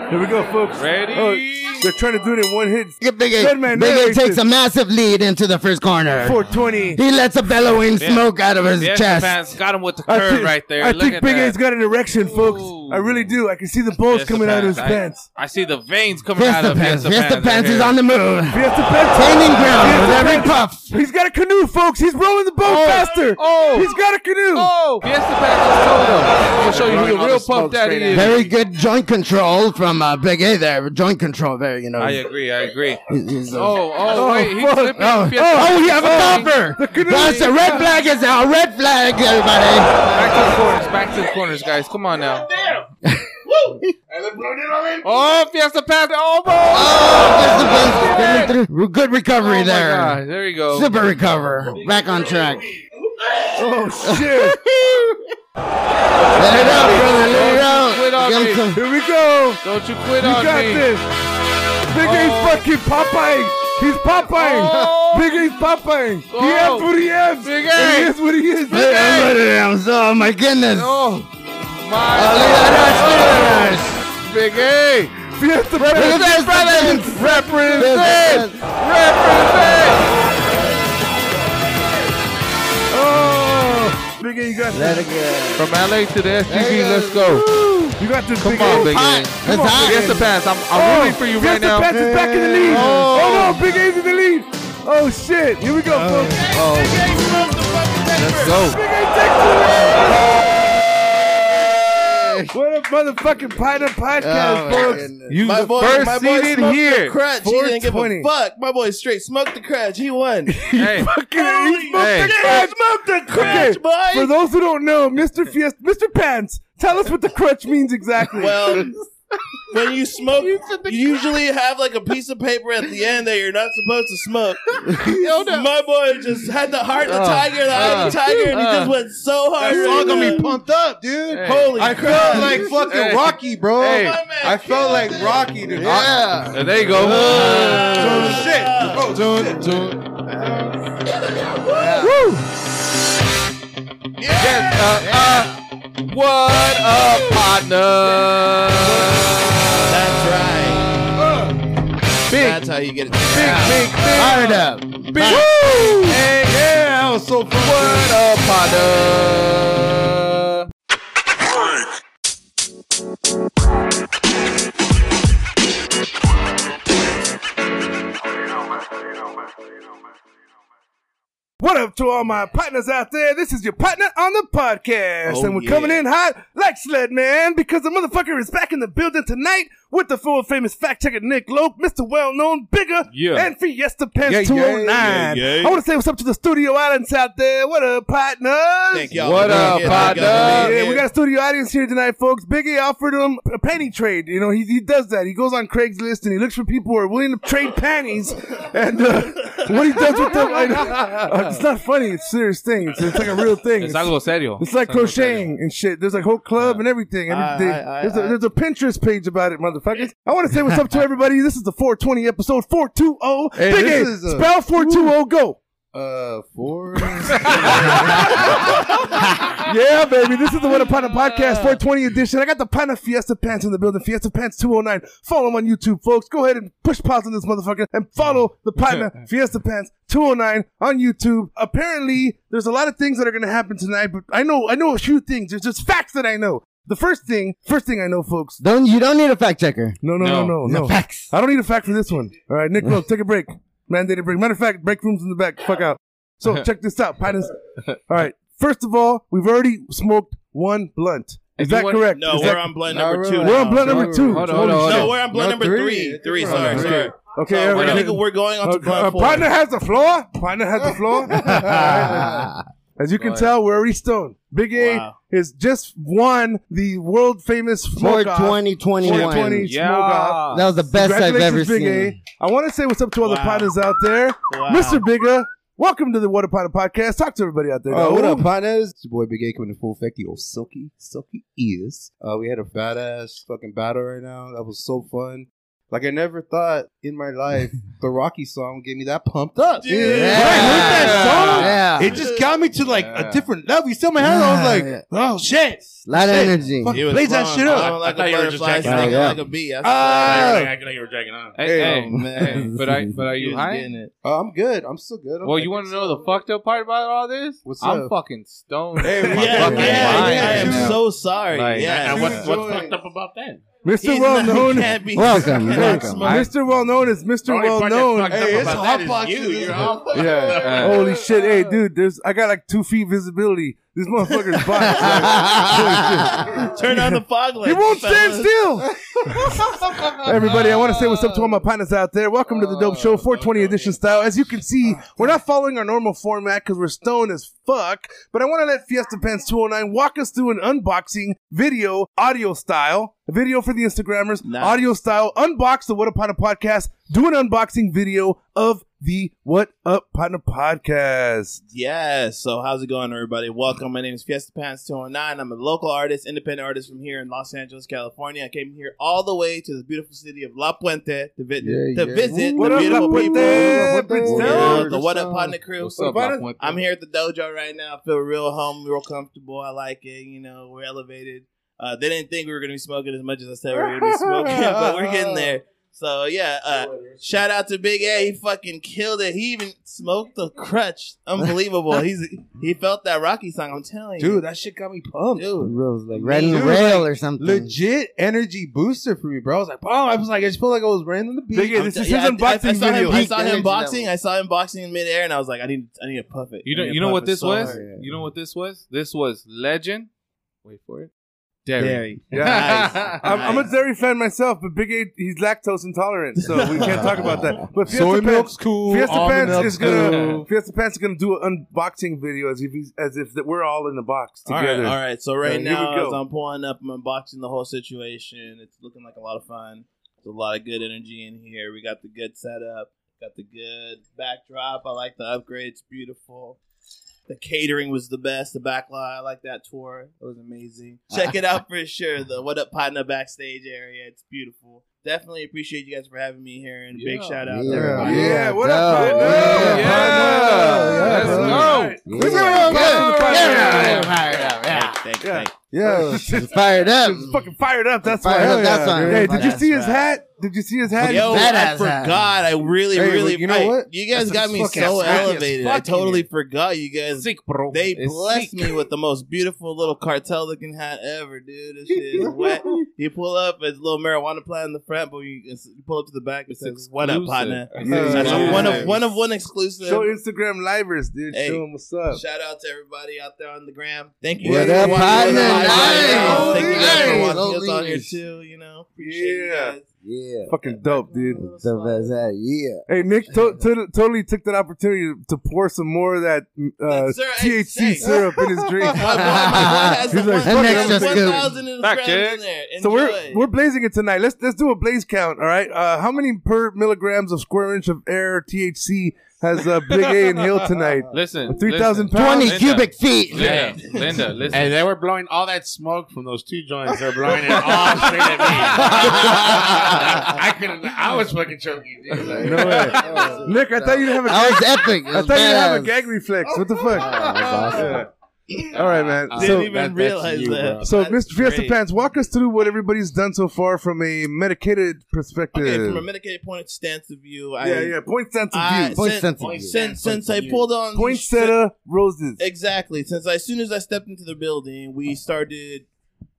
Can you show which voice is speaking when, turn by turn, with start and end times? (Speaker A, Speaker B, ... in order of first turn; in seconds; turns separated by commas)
Speaker A: 0.1-4.4, Speaker B: 0.7-1.9, Speaker C: 3.0-6.4, Speaker A: 6.2-7.0, Speaker C: 6.9-9.4, Speaker B: 8.0-11.6, Speaker A: 10.1-15.2, Speaker B: 12.2-13.2, Speaker B: 14.1-18.0, Speaker C: 16.3-20.9, Speaker A: 18.5-24.7, Speaker B: 22.6-23.9, Speaker B: 24.5-28.5, Speaker D: 26.6-28.3, Speaker C: 28.1-32.2, Speaker B: 32.0-33.0, Speaker C: 33.1-33.8, Speaker B: 33.5-36.5, Speaker A: 34.1-37.9, Speaker C: 35.0-40.0, Speaker B: 40.1-42.5, Speaker D: 42.5-42.9, Speaker C: 43.0-43.9, Speaker D: 44.1-45.0, Speaker E: 44.2-45.0, Speaker B: 45.0-48.5, Speaker C: 46.7-52.7, Speaker B: 49.4-51.1, Speaker D: 51.9-52.7, Speaker A: 53.5-54.6, Speaker C: 54.0-55.3, Speaker B: 56.1-58.7, Speaker C: 56.3-58.8, Speaker A: 56.5-57.5, Speaker A: 58.7-59.6, Speaker B: 59.6-60.9, Speaker A: 60.2-61.0, Speaker A: 61.9-69.3, Speaker B: 62.0-62.7, Speaker B: 64.3-65.3, Speaker B: 66.3-66.9, Speaker B: 67.4-68.1, Speaker C: 68.7-71.0, Speaker B: 70.7-71.3, Speaker B: 71.8-75.2, Speaker C: 72.1-74.0, Speaker A: 75.4-78.1, Speaker B: 75.7-80.1, Speaker C: 75.9-78.6, Speaker A: 82.9-85.0, Speaker C: 84.7-85.7, Speaker B: 85.5-87.5, Speaker C: 86.4-88.0, Speaker A: 88.0-96.5, Speaker B: 88.4-92.0, Speaker C: 88.5-90.2, Speaker E: 92.1-92.8, Speaker C: 92.3-93.7, Speaker C: 95.9-96.5, Speaker F: 96.3-98.6, Speaker E: 96.5-97.2, Speaker E: 98.1-98.8, Speaker A: 98.5-100.5, Speaker C: 101.9-102.5, Speaker A: 102.5-105.1, Speaker C: 104.2-105.4, Speaker B: 105.3-107.2, Speaker F: 105.4-110.5, Speaker A: 107.4-108.3, Speaker A: 110.5-118.9, Speaker B: 110.8-111.1, Speaker F: 111.3-114.3, Speaker B: 111.9-112.4, Speaker B: 113.3-113.7, Speaker F: 118.3-119.0, Speaker F: 119.7-130.5, Speaker B: 125.0-125.7, Speaker B: 127.1-128.9, Speaker E: 127.4-128.1, Speaker E: 129.6-136.2, Speaker B: 129.8-130.3, Speaker B: 131.3-134.2, Speaker F: 131.4-132.6, Speaker F: 133.8-135.4, Speaker C: 135.7-137.8, Speaker B: 135.8-138.4, Speaker E: 137.0-140.3, Speaker F: 137.0-139.1, Speaker B: 139.1-140.2, Speaker C: 141.7-142.1, Speaker B: 142.0-142.4, Speaker F: 144.2-145.1, Speaker B: 144.4-149.8, Speaker C: 145.0-145.5, Speaker E: 148.9-149.2, Speaker F: 149.8-150.9, Speaker B: 152.3-152.6, Speaker F: 152.3-153.8, Speaker B: 153.2-156.7, Speaker C: 153.3-156.2, Speaker E: 153.5-154.2, Speaker E: 156.4-158.2, Speaker B: 157.5-160.7, Speaker A: 171.6-215.6, Speaker F: 175.2-176.0, Speaker B: 183.1-183.5, Speaker E: 184.2-185.3, Speaker F: 184.9-185.8, Speaker F: 188.9-191.0, Speaker B: 189.2-190.8, Speaker B: 203.8-205.5, Speaker F: 207.3-208.4, Speaker E: 213.5-215.1, Speaker E: 215.9-218.7, Speaker A: 217.2-218.7, Speaker A: 219.5-238.6, Speaker B: 220.8-221.8, Speaker B: 228.8-229.1, Speaker C: 238.6-240.0, Speaker A: 240.0-252.8, Speaker B: 240.2-240.6, Speaker C: 240.6-241.3, Speaker B: 251.6-252.6, Speaker F: 252.1-254.1, Speaker E: 252.8-257.1, Speaker A: 253.4-255.2, Speaker B: 254.2-255.2, Speaker F: 254.7-259.5, Speaker A: 256.4-262.3, Speaker B: 257.7-258.1, Speaker E: 260.8-262.5, Speaker C: 261.4-262.6, Speaker A: 263.0-278.5, Speaker B: 263.2-263.5, Speaker F: 264.7-265.1, Speaker C: 267.9-269.7, Speaker B: 269.0-270.7, Speaker C: 270.5-272.2, Speaker F: 273.2-273.7, Speaker F: 274.5-275.0, Speaker E: 277.9-298.0, Speaker F: 289.7-291.3, Speaker C: 290.0-292.2, Speaker B: 290.3-291.8, Speaker F: 292.1-292.5, Speaker B: 292.9-293.4, Speaker C: 294.2-295.0, Speaker C: 296.1-297.0, Speaker F: 296.9-300.6, Speaker D: 297.6-299.4, Speaker C: 298.8-299.4, Speaker E: 299.8-300.7, Speaker D: 300.1-301.6, Speaker B: 301.6-303.9, Speaker E: 301.6-302.2, Speaker F: 301.8-302.7, Speaker C: 302.5-303.1, Speaker F: 303.3-304.1, Speaker E: 304.2-306.1, Speaker B: 305.4-312.5, Speaker E: 307.6-308.1, Speaker E: 309.0-311.0, Speaker F: 309.3-312.5, Speaker D: 309.7-310.5, Speaker D: 311.8-313.7, Speaker E: 312.1-313.0, Speaker A: 313.8-318.8, Speaker F: 314.0-316.5, Speaker C: 315.1-316.3, Speaker B: 315.9-316.5, Speaker D: 317.4-321.4, Speaker E: 318.3-319.9, Speaker A: 320.1-351.6, Speaker B: 320.6-321.2, Speaker F: 324.3-325.2, Speaker C: 325.0-326.2, Speaker F: 326.4-328.5, Speaker E: 329.0-331.5, Speaker D: 332.5-334.0, Speaker F: 344.4-344.8, Speaker F: 351.7-384.4, Speaker E: 361.6-365.6, Speaker A: 362.6-365.0, Speaker B: 365.8-366.8, Speaker A: 366.1-366.4, Speaker E: 373.7-375.6, Speaker E: 384.2-385.7, Speaker F: 385.3-386.9, Speaker C: 385.6-387.8, Speaker E: 386.3-391.9, Speaker A: 391.5-393.3, Speaker F: 391.7-397.8, Speaker C: 393.0-394.1, Speaker B: 396.6-400.1, Speaker E: 397.6-398.1, Speaker B: 400.6-401.1, Speaker B: 401.6-403.2, Speaker F: 401.8-403.7, Speaker A: 402.3-416.2, Speaker F: 406.4-407.5, Speaker E: 407.8-410.5, Speaker B: 409.9-410.4, Speaker F: 414.5-426.6, Speaker F: 427.3-438.3, Speaker B: 436.9-437.4, Speaker C: 437.5-445.0, Speaker E: 437.7-443.1, Speaker A: 438.0-444.3, Speaker B: 439.0-444.2, Speaker F: 443.5-445.5, Speaker A: 445.2-451.5, Speaker E: 445.7-446.3, Speaker C: 446.2-447.4, Speaker C: 448.0-449.6, Speaker E: 448.2-449.4, Speaker F: 449.3-450.1, Speaker C: 451.0-452.2, Speaker F: 451.0-470.1, Speaker E: 452.9-455.5, Speaker B: 454.8-456.2, Speaker B: 457.2-458.8, Speaker E: 462.1-462.8, Speaker B: 466.5-469.0, Speaker E: 467.8-468.9, Speaker A: 467.8-468.9, Speaker A: 469.8-472.2, Speaker F: 471.3-479.9, Speaker E: 474.4-477.1, Speaker C: 474.4-478.1, Speaker A: 474.7-477.4, Speaker A: 479.0-479.7, Speaker C: 480.0-480.5, Speaker A: 480.5-481.4, Speaker F: 480.6-482.1, Speaker C: 481.3-483.5, Speaker A: 482.9-491.4, Speaker F: 486.9-488.1, Speaker F: 488.9-493.4, Speaker C: 489.1-491.5, Speaker B: 491.8-492.4, Speaker A: 492.8-502.6, Speaker B: 501.1-504.7, Speaker C: 502.1-503.7, Speaker D: 503.4-503.8, Speaker D: 504.4-513.3, Speaker A: 507.4-508.4, Speaker C: 508.8-510.2, Speaker A: 512.4-518.1, Speaker E: 512.6-513.6, Speaker C: 513.0-513.5, Speaker C: 514.1-516.0, Speaker D: 516.5-518.0, Speaker C: 516.9-518.0, Speaker A: 518.6-519.7, Speaker D: 518.7-520.9, Speaker F: 519.3-521.8, Speaker A: 520.8-526.0, Speaker F: 525.5-528.0, Speaker A: 527.6-529.0, Speaker F: 528.5-531.6, Speaker C: 528.9-529.8, Speaker D: 529.4-530.7, Speaker A: 530.9-532.4, Speaker F: 532.4-535.9